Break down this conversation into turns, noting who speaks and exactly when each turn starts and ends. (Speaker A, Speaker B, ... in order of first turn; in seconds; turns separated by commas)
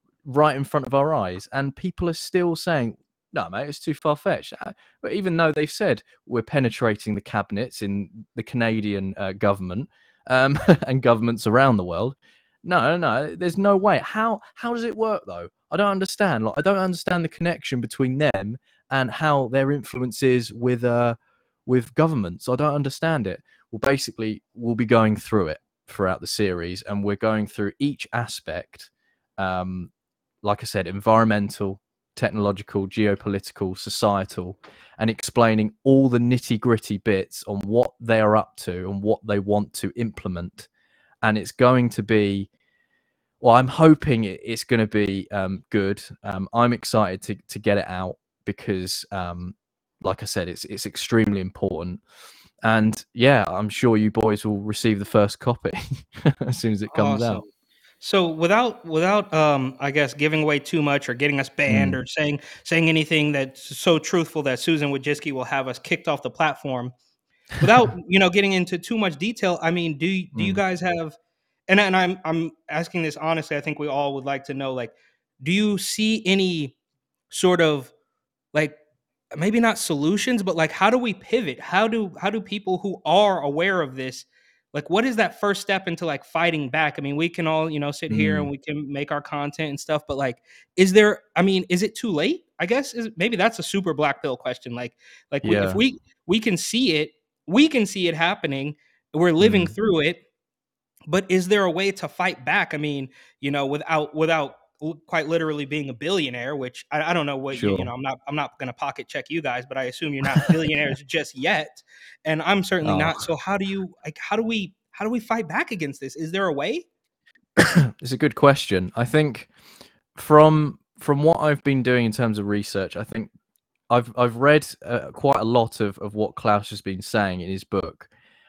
Speaker A: 0.2-29.9, Speaker A: 30.4-40.7, Speaker A: 41.2-42.5, Speaker A: 43.4-52.0, Speaker A: 52.6-57.4, Speaker B: 56.9-57.5, Speaker B: 58.0-66.9, Speaker A: 61.7-62.0, Speaker B: 67.6-71.2, Speaker A: 70.3-70.6, Speaker B: 71.7-76.8, Speaker B: 77.3-77.9, Speaker B: 79.3-100.2, Speaker A: 88.1-88.5, Speaker A: 95.4-95.8, Speaker A: 99.4-99.8, Speaker B: 101.1-116.9, Speaker A: 107.5-107.9, Speaker A: 112.8-113.3, Speaker A: 117.6-119.5, Speaker A: 120.2-123.3, Speaker A: 123.9-128.1